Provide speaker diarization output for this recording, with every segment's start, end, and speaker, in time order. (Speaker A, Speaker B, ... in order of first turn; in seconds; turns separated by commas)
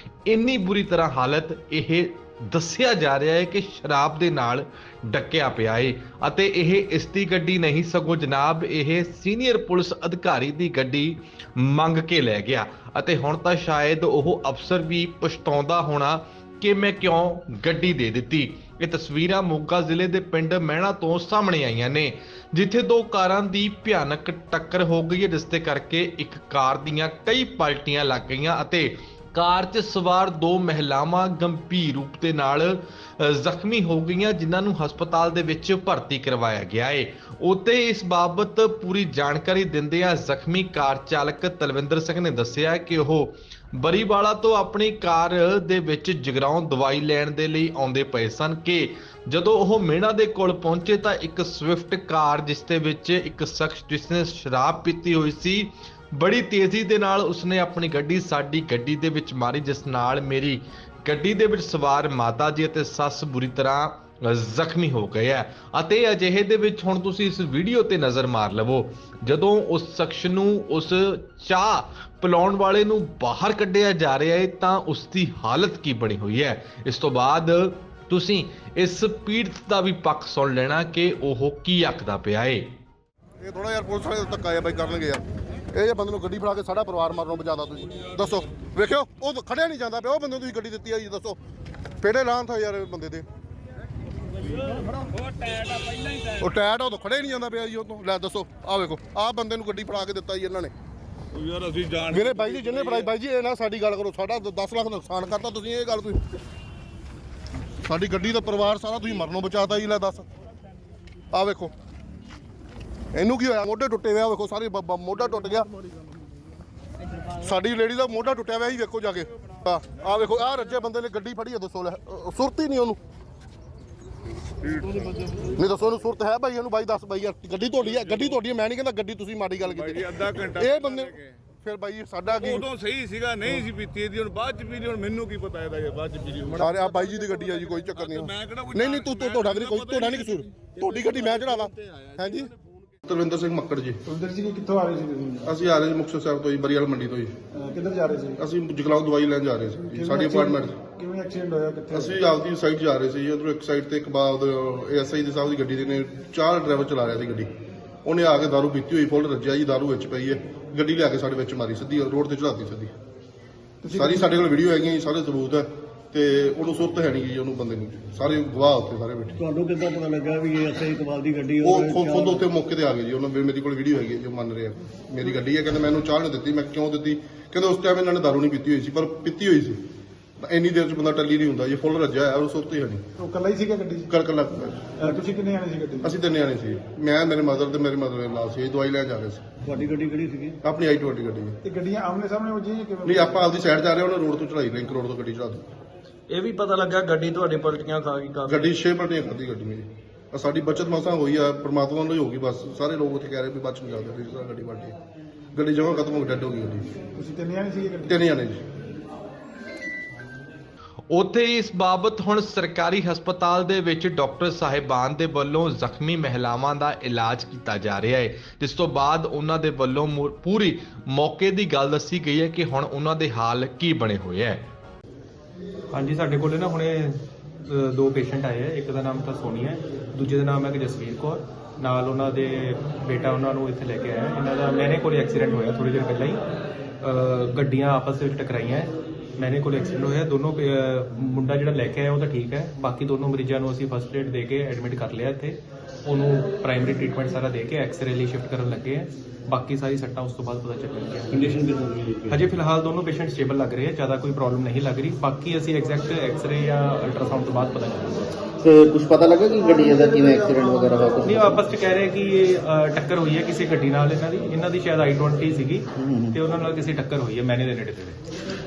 Speaker A: 0.3-82.7, Speaker B: 83.4-91.4, Speaker B: 92.0-93.2, Speaker C: 95.4-96.2, Speaker B: 96.4-100.7, Speaker C: 101.3-103.1, Speaker B: 102.1-106.2, Speaker B: 107.8-110.3, Speaker B: 111.3-111.7, Speaker B: 113.1-115.7, Speaker B: 117.2-123.0, Speaker C: 124.7-125.5, Speaker B: 125.5-132.7, Speaker C: 128.1-128.3, Speaker C: 129.7-131.3, Speaker C: 132.3-137.3, Speaker B: 136.5-142.5, Speaker C: 137.8-142.3, Speaker B: 143.0-144.0, Speaker D: 144.1-145.5, Speaker B: 145.4-147.3, Speaker D: 147.5-148.4, Speaker B: 148.4-150.7, Speaker D: 149.9-152.2, Speaker B: 151.9-157.5, Speaker B: 158.1-162.9, Speaker D: 163.8-164.3, Speaker B: 163.9-169.4, Speaker E: 169.3-172.5, Speaker B: 171.6-179.8, Speaker B: 180.4-183.0, Speaker D: 183.2-184.1, Speaker B: 184.1-184.9, Speaker D: 185.0-186.1, Speaker B: 186.0-189.5, Speaker E: 189.6-190.6, Speaker B: 190.6-191.6, Speaker D: 191.6-193.5, Speaker B: 193.1-195.7, Speaker F: 196.3-198.7, Speaker B: 198.5-205.0, Speaker B: 205.5-206.9, Speaker D: 207.2-208.3, Speaker B: 208.1-208.6, Speaker A: 211.1-224.7, Speaker G: 225.9-236.4, Speaker G: 237.0-251.6, Speaker E: 251.5-252.4, Speaker G: 252.3-258.3, Speaker H: 258.6-261.7, Speaker G: 261.2-268.2, Speaker H: 266.0-266.4